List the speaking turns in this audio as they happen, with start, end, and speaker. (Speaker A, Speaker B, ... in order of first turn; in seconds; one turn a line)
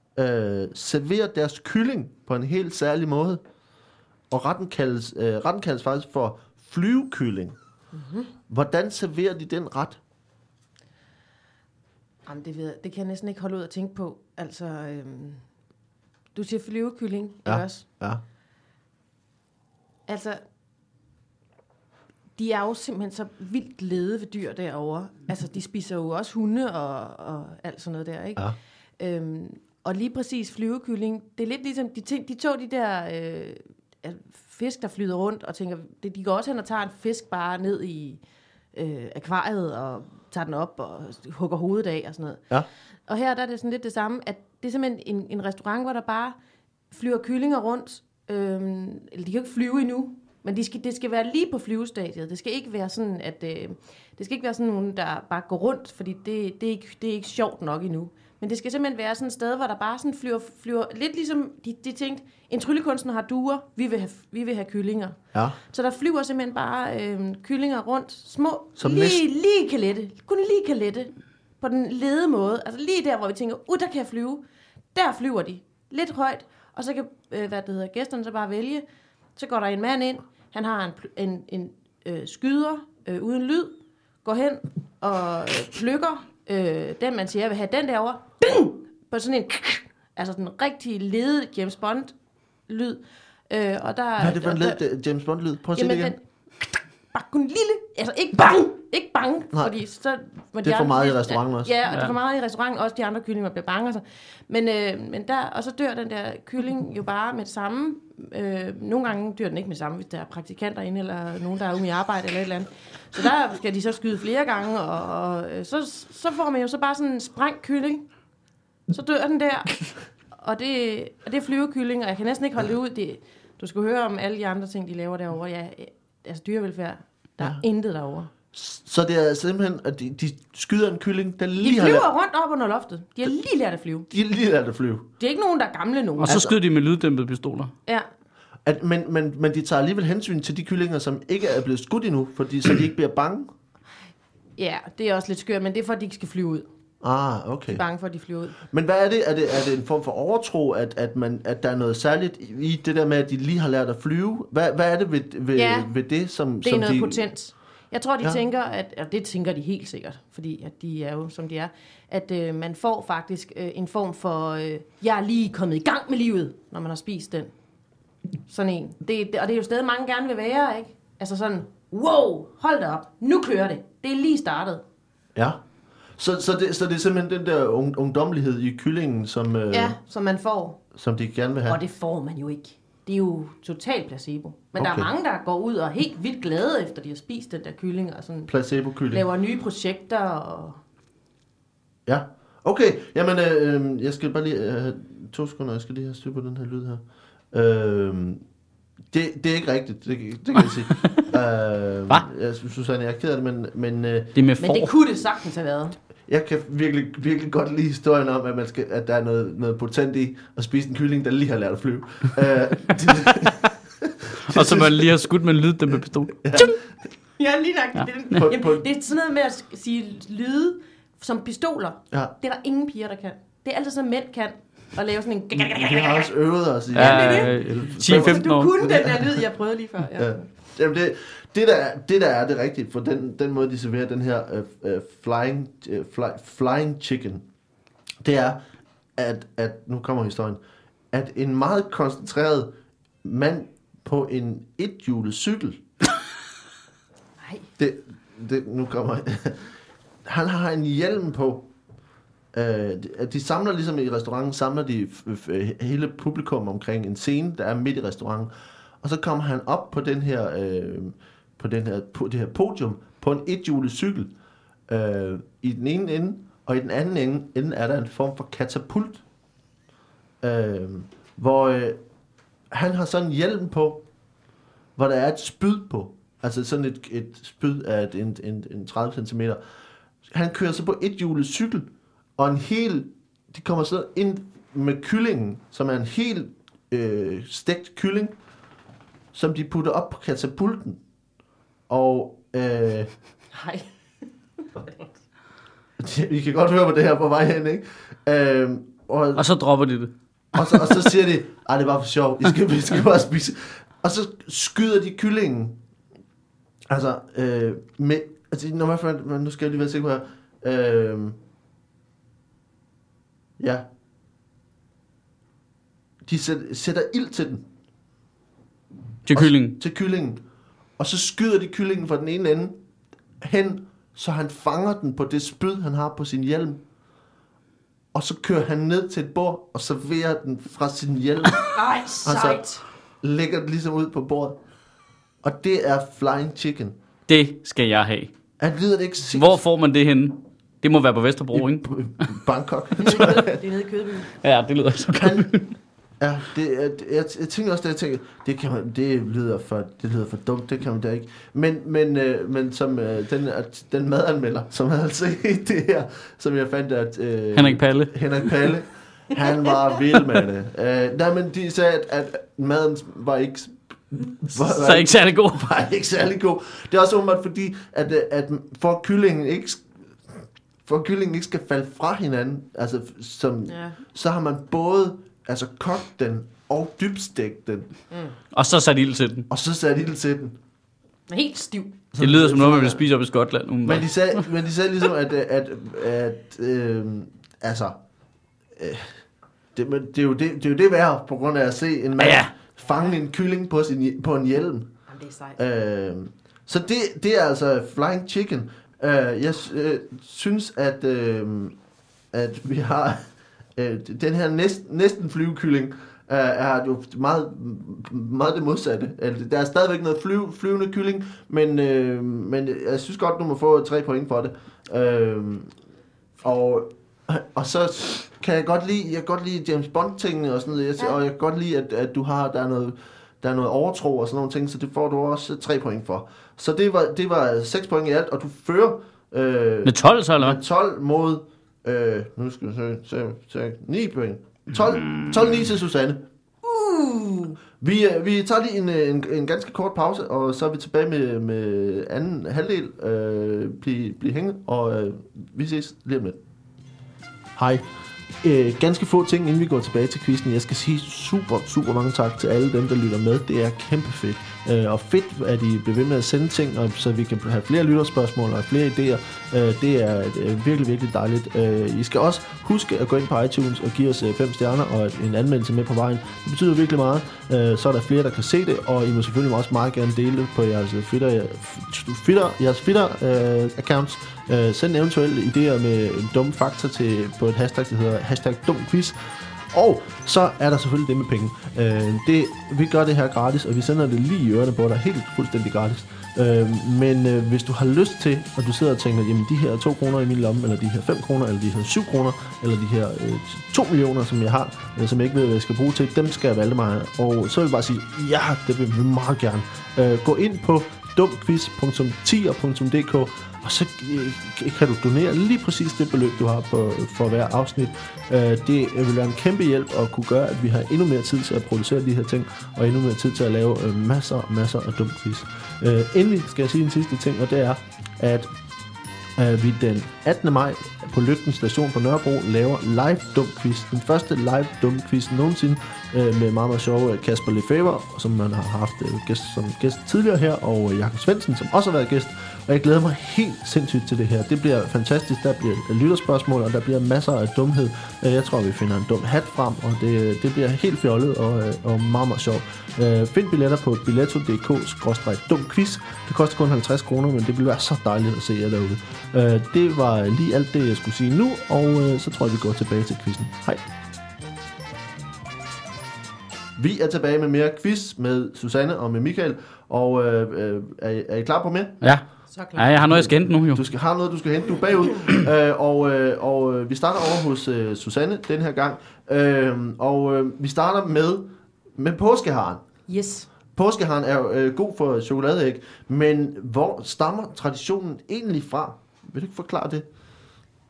Speaker A: 0.1-3.4
Speaker A: 4.3-7.5
Speaker B: 7.9-8.3
Speaker A: 8.5-10.0
Speaker B: 12.3-15.4
Speaker B: 16.4-17.9
Speaker A: 17.4-18.2
Speaker B: 20.1-20.4
Speaker B: 22.4-28.5
Speaker B: 29.0-38.2
Speaker B: 38.7-42.5
Speaker B: 43.1-46.4
Speaker B: 46.9-65.2
Speaker B: 65.7-74.4
Speaker A: 68.8-69.2
Speaker B: 74.9-78.8
Speaker B: 79.4-92.1
Speaker B: 92.7-94.8
Speaker A: 94.2-96.1
Speaker B: 95.8-118.1
Speaker A: 100.6-101.7
Speaker C: 101.9-102.1
Speaker B: 118.9-128.3
Speaker A: 128.5-132.1
Speaker B: 131.6-134.1
Speaker A: 134.1-135.1
Speaker B: 135.2-136.4
Speaker C: 136.2-137.7
Speaker A: 136.3-136.6
Speaker A: 138.6-143.5
Speaker B: 144.6-146.7
Speaker A: 147.0-147.8
Speaker B: 147.7-148.6
Speaker A: 148.7-157.2
Speaker B: 155.6-155.9
Speaker B: 156.6-167.5
Speaker B: 168.5-174.8
Speaker A: 175.4-175.6
Speaker A: 176.2-180.0
Speaker B: 179.7-180.8
Speaker A: 180.9-181.8
Speaker B: 181.7-188.5
Speaker A: 184.8-185.1
Speaker A: 188.5-189.2
Speaker B: 189.1-190.8
Speaker A: 192.1-197.0
Speaker A: 197.5-198.4
Speaker A: 199.1-204.3
Speaker C: 204.3-204.9
Speaker B: 204.6-206.0
Speaker A: 206.3-215.1
Speaker C: 214.5-216.7
Speaker A: 216.4-216.7
Speaker B: 217.4-226.3
Speaker A: 218.3-218.8
Speaker A: 225.6-229.2
Speaker B: 226.9-230.5
Speaker C: 226.9-228.8
Speaker A: 230.2-237.4
Speaker A: 238.2-238.6
Speaker A: 239.2-240.6
Speaker A: 241.1-245.8
Speaker B: 247.4-247.7
Speaker A: 247.8-249.7
Speaker A: 250.3-251.7
Speaker A: 252.5-264.3
Speaker A: 264.9-269.2
Speaker A: 270.4-272.0
Speaker A: 272.7-274.1
Speaker A: 274.9-279.6
Speaker A: 280.3-288.4
Speaker A: 289.3-291.0
Speaker A: 291.9-293.1
Speaker B: 293.5-293.9
Speaker B: 294.6-295.1
Speaker A: 296.0-299.4
Speaker C: 299.4-301.0
Speaker A: 300.5-305.8
Speaker A: 306.9-311.4
Speaker A: 313.6-313.9
Speaker A: 316.3-317.6
Speaker C: 319.2-319.8
Speaker A: 319.3-320.4
Speaker A: 321.0-322.8
Speaker A: 323.4-326.8
Speaker A: 328.1-331.7
Speaker B: 331.8-332.8
Speaker A: 332.2-332.6
Speaker A: 333.2-334.6
Speaker A: 335.4-336.9
Speaker C: 337.3-338.3
Speaker A: 338.6-339.6
Speaker C: 339.4-341.9
Speaker A: 341.5-343.6
Speaker B: 343.0-344.3
Speaker C: 344.4-345.8
Speaker A: 345.1-345.5
Speaker A: 346.2-377.9
Speaker C: 357.6-358.7
Speaker C: 364.6-365.7
Speaker B: 373.7-374.0
Speaker C: 378.5-379.5
Speaker A: 379.5-380.6
Speaker B: 381.3-382.0
Speaker A: 382.1-383.0
Speaker C: 382.2-384.4
Speaker A: 383.9-388.0
Speaker A: 388.8-389.2
Speaker A: 389.8-394.9
Speaker C: 392.2-392.5
Speaker B: 395.1-395.6
Speaker A: 395.6-401.8
Speaker A: 402.3-403.2
Speaker A: 403.8-415.7
Speaker A: 416.4-436.3
Speaker C: 429.9-430.6
Speaker C: 434.9-435.4
Speaker B: 436.6-437.6
Speaker A: 437.8-446.4
Speaker A: 447.6-447.9
Speaker A: 448.4-518.5
Speaker A: 519.4-553.8
Speaker A: 556.8-562.0
Speaker C: 562.0-563.8
Speaker B: 562.5-563.0
Speaker A: 563.0-572.8
Speaker B: 573.1-573.5
Speaker A: 573.7-580.1